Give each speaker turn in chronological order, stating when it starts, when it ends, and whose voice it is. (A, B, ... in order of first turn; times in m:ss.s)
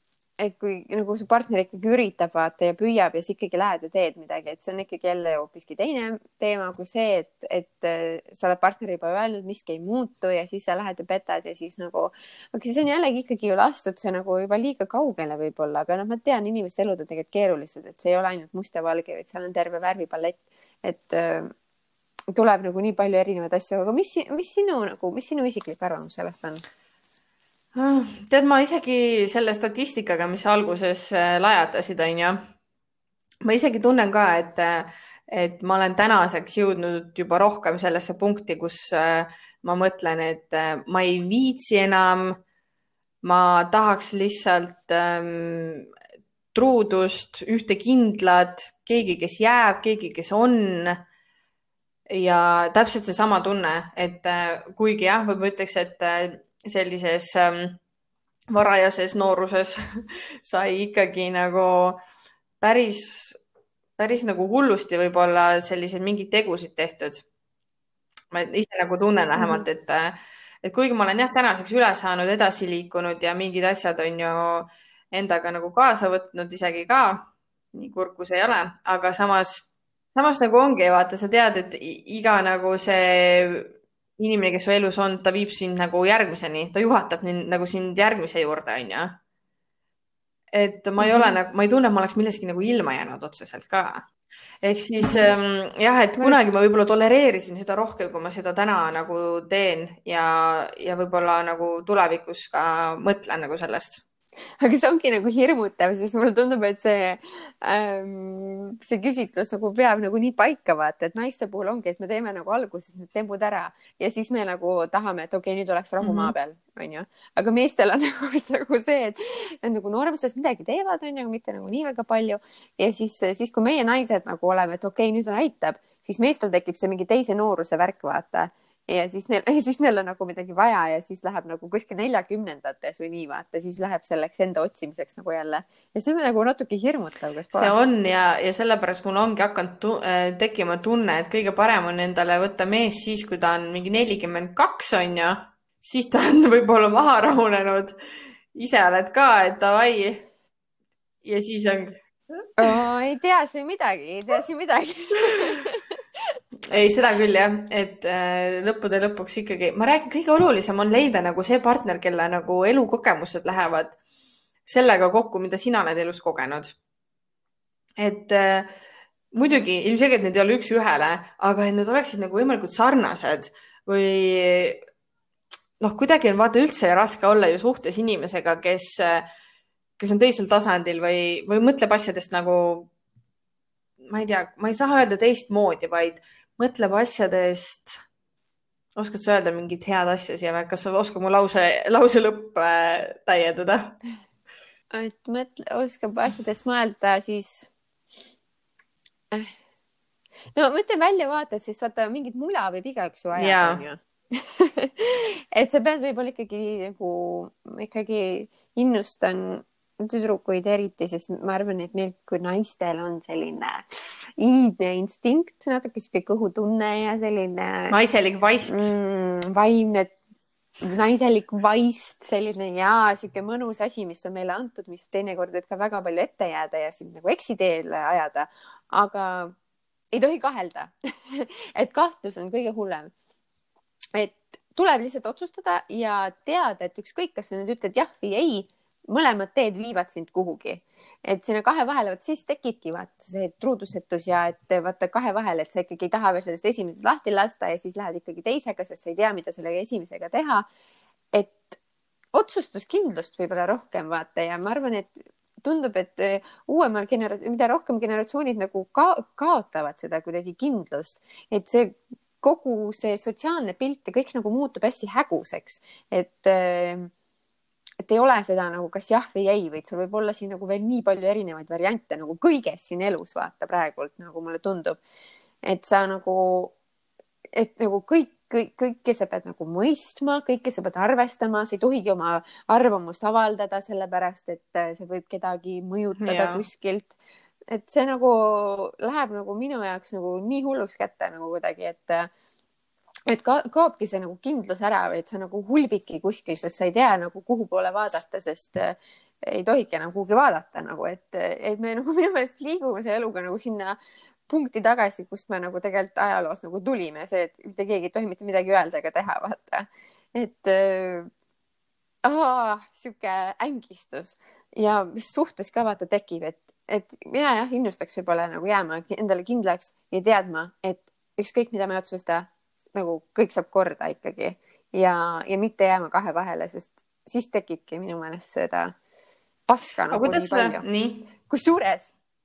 0:00.4-0:21.5 A
0:22.3-0:26.6 A
0:27.7-0:32.4 B
0:33.4-0:42.4 B
0:43.2-0:45.9 B
0:46.5-0:51.0 B
0:52.1-0:57.8 B
0:58.5-1:02.0 B
1:02.6-1:03.4 B
1:04.0-1:07.2 B
1:08.3-1:29.2 B
1:09.4-1:09.6 A
1:30.5-1:34.0 B
1:31.0-1:31.3 A
1:34.6-1:44.0 B
1:44.6-2:17.7 A
1:56.0-1:56.3 B
2:17.5-2:27.9 B
2:28.5-2:30.3 B
2:31.2-2:32.0 B
2:32.6-2:35.9 A
2:36.7-2:44.0 B
2:44.6-2:46.8 B
2:48.0-2:48.7 B
2:49.3-2:54.8 B
2:55.8-2:59.3 B
3:00.0-3:02.9 B
3:04.0-3:08.0 B
3:09.0-3:14.0 B
3:14.9-3:17.7 A
3:20.6-3:33.9 A
3:23.3-3:23.8 B
3:34.4-3:37.9 A
3:37.9-3:38.9 B
3:38.7-3:40.1 A
3:40.8-3:49.5 A
3:50.1-3:53.1 A
3:54.1-4:10.7 A
4:11.3-4:11.8 A
4:12.3-4:15.1 A
4:15.6-4:27.1 A
4:28.0-4:35.0 A
4:35.6-4:36.7 A
4:37.5-4:47.1 A
4:46.2-4:46.6 B
4:47.7-4:52.3 A
4:53.3-5:04.0 A
5:04.5-5:11.3 A
5:12.2-5:28.9 A
5:29.7-5:30.8 A
5:30.1-5:31.3 B
5:31.5-5:32.1 A